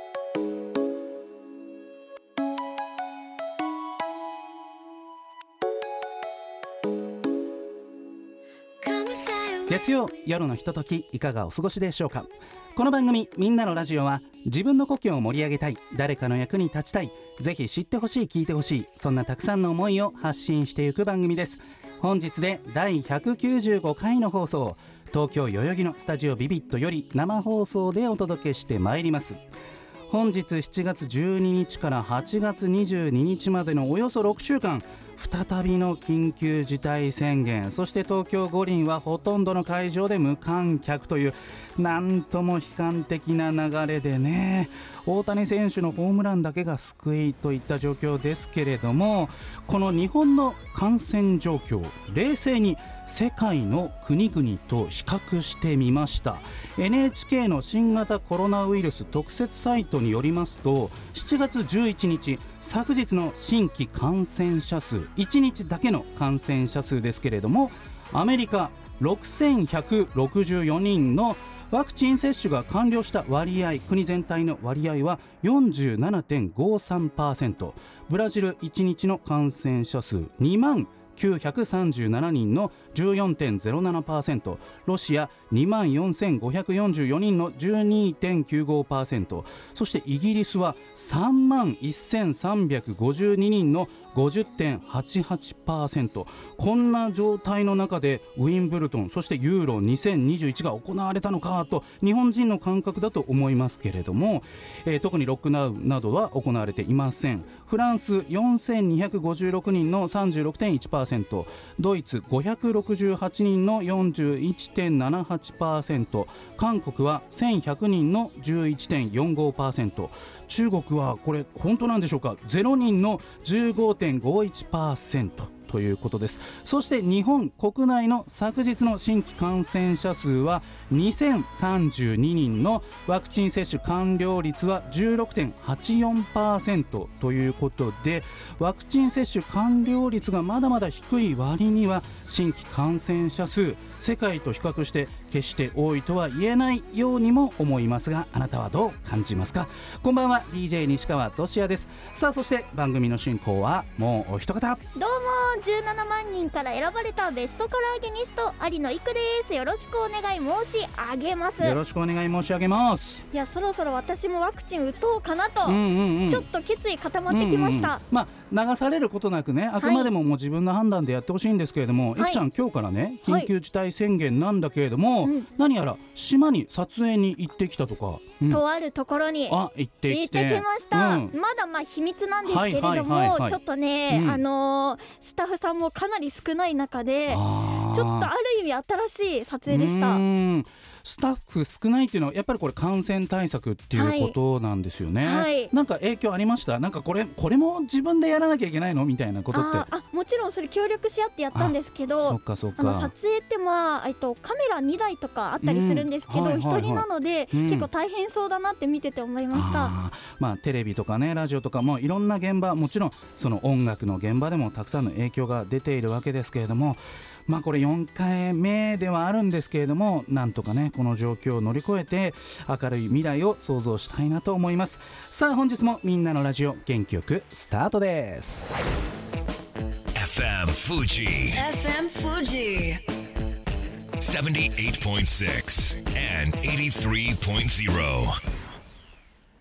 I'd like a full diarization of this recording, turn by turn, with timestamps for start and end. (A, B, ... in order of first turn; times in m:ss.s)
0:08.8-0:09.9 A
0:09.7-0:29.4 B
0:30.1-2:34.8 B
2:35.0-2:41.8 C
2:41.6-2:43.3 B
2:43.3-2:48.0 C
2:45.6-2:46.4 B
2:47.3-2:58.6 B
2:49.8-2:50.1 C
2:52.2-2:52.4 C
2:55.2-2:55.5 C
2:58.5-3:10.2 C
2:59.5-3:01.3 B
3:02.4-3:04.4 B
3:07.3-3:08.3 B
3:09.7-3:19.9 B
3:13.9-3:14.4 C
3:15.2-3:15.7 C
3:19.5-3:29.9 C
3:21.5-3:23.1 B
3:25.6-3:27.9 B
3:29.5-3:48.7 B
3:50.1-3:51.6 D
3:51.6-3:53.0 A
3:54.2-3:58.4 D